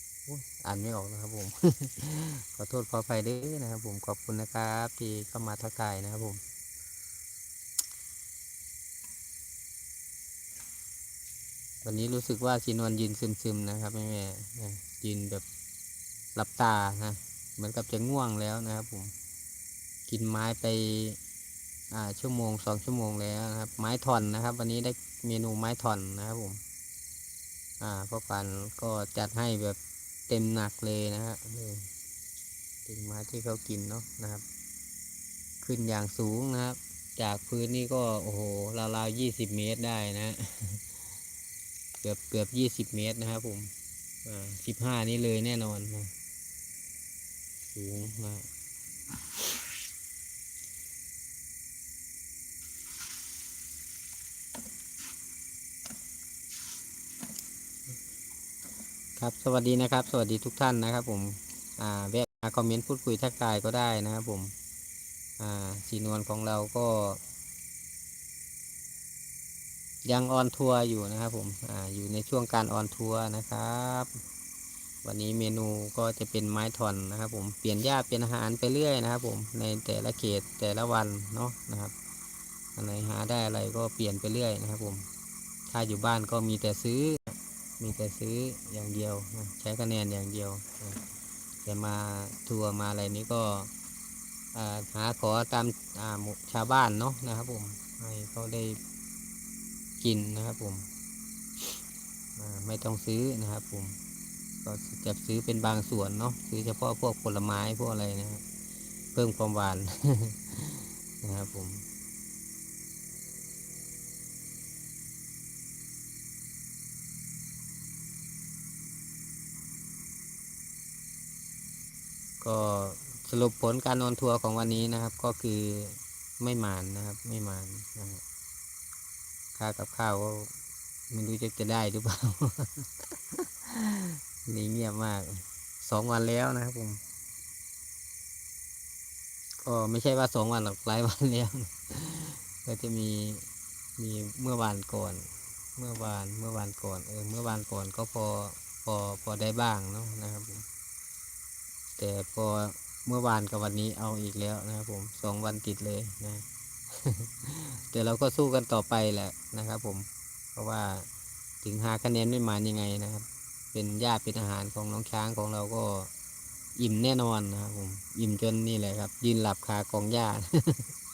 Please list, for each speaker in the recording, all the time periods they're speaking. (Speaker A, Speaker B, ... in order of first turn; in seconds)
Speaker A: 0.3-6.4, 11.8-15.4, 16.3-19.1, 20.1-21.2, 21.9-26.6, 27.8-31.9, 32.9-34.4, 35.6-40.8, 42.0-43.7, 44.2-46.1, 47.7-48.5, 59.2-64.5, 65.4-67.2, 70.0-74.2, 75.0-81.9, 82.8-85.0, 85.7-91.0, 91.6-93.7, 94.5-98.8, 100.0-100.9, 102.4-104.0, 104.6-108.4, 109.1-111.8, 122.4-128.2, 129.5-130.5, 131.1-137.0, 139.6-150.6, 152.0-161.1, 161.6-166.1, 166.8-170.9